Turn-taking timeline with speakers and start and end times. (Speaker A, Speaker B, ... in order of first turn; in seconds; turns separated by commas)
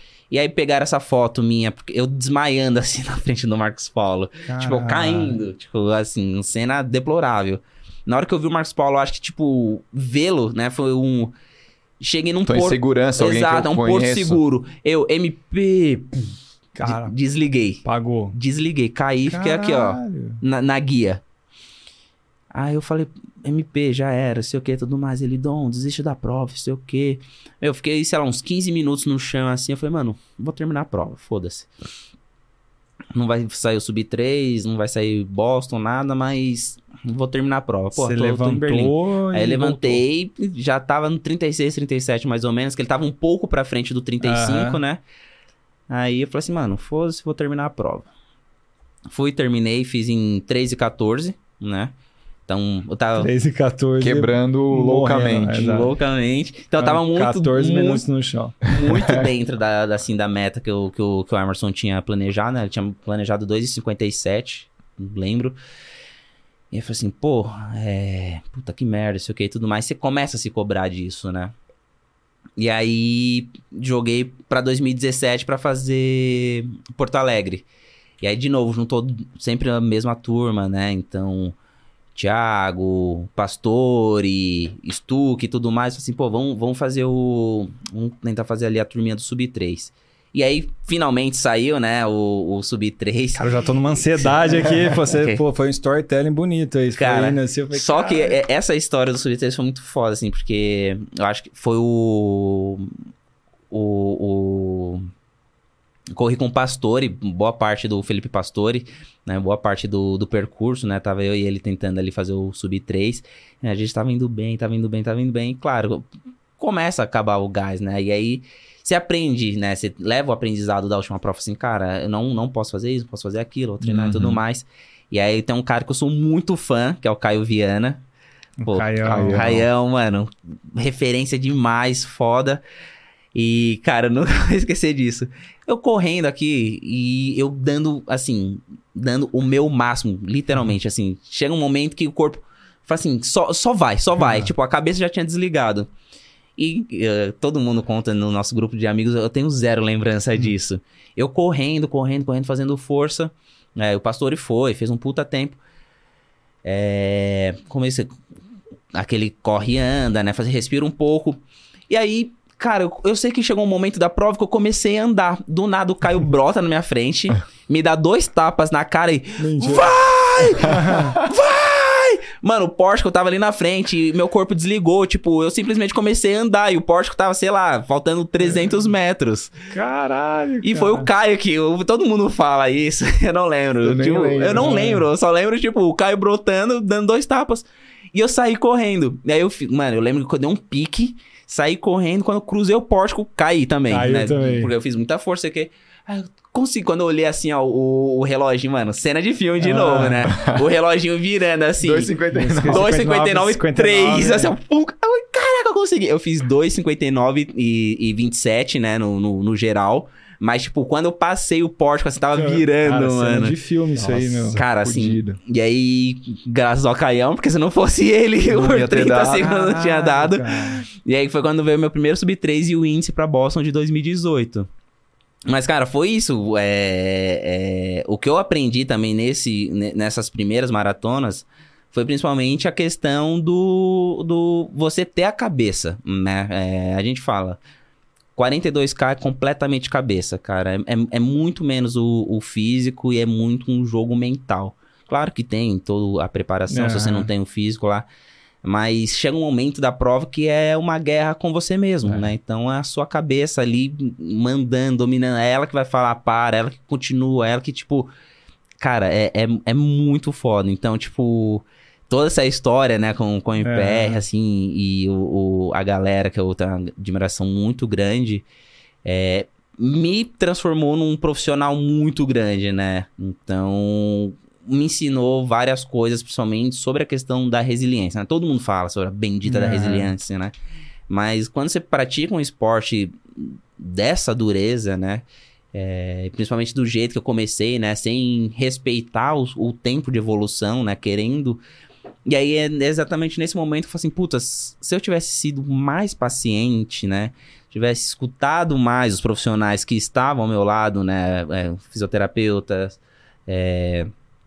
Speaker A: 0.3-11.3, Speaker B: 4.5-5.4, Speaker A: 12.0-21.2, Speaker C: 12.5-14.4, Speaker B: 16.8-17.1, Speaker B: 17.8-18.4, Speaker B: 19.3-20.4, Speaker A: 22.5-31.7, Speaker A: 33.1-45.0, Speaker B: 37.9-40.0, Speaker B: 44.2-44.8, Speaker A: 45.9-48.1, Speaker A: 49.1-51.9, Speaker A: 52.5-53.3, Speaker B: 53.2-55.9, Speaker C: 54.0-55.7, Speaker A: 55.5-58.0, Speaker B: 56.8-58.6, Speaker A: 58.6-65.6, Speaker C: 58.8-59.3, Speaker A: 66.7-71.5, Speaker A: 72.6-77.6, Speaker A: 78.2-81.5, Speaker A: 82.1-93.4, Speaker B: 93.3-98.4, Speaker A: 94.2-95.4, Speaker A: 97.0-102.9, Speaker A: 103.7-105.1, Speaker A: 106.1-116.0, Speaker A: 116.6-128.0, Speaker C: 123.8-124.4, Speaker B: 128.6-129.6, Speaker A: 128.7-132.6, Speaker C: 129.0-129.7, Speaker A: 133.3-145.9, Speaker A: 146.6-155.6, Speaker A: 156.6-158.1, Speaker A: 158.9-179.5, Speaker B: 169.4-169.9, Speaker B: 170.6-171.2, Speaker B: 179.7-181.1, Speaker A: 180.6-202.1, Speaker C: 183.8-184.9, Speaker B: 184.5-185.0, Speaker B: 193.9-194.7, Speaker B: 199.6-200.3, Speaker C: 200.3-200.6, Speaker C: 201.8-203.0, Speaker B: 202.3-204.5, Speaker A: 202.7-213.5, Speaker B: 212.3-214.6, Speaker C: 213.9-215.4, Speaker A: 214.5-224.7, Speaker C: 218.5-219.6, Speaker B: 219.3-220.8, Speaker A: 225.5-237.6, Speaker A: 238.3-248.1, Speaker B: 246.7-247.3, Speaker A: 248.6-258.1, Speaker B: 252.1-252.3, Speaker A: 258.8-268.4, Speaker B: 263.6-264.2, Speaker A: 269.0-280.5, Speaker B: 279.4-280.1, Speaker A: 281.1-291.6, Speaker A: 292.2-304.1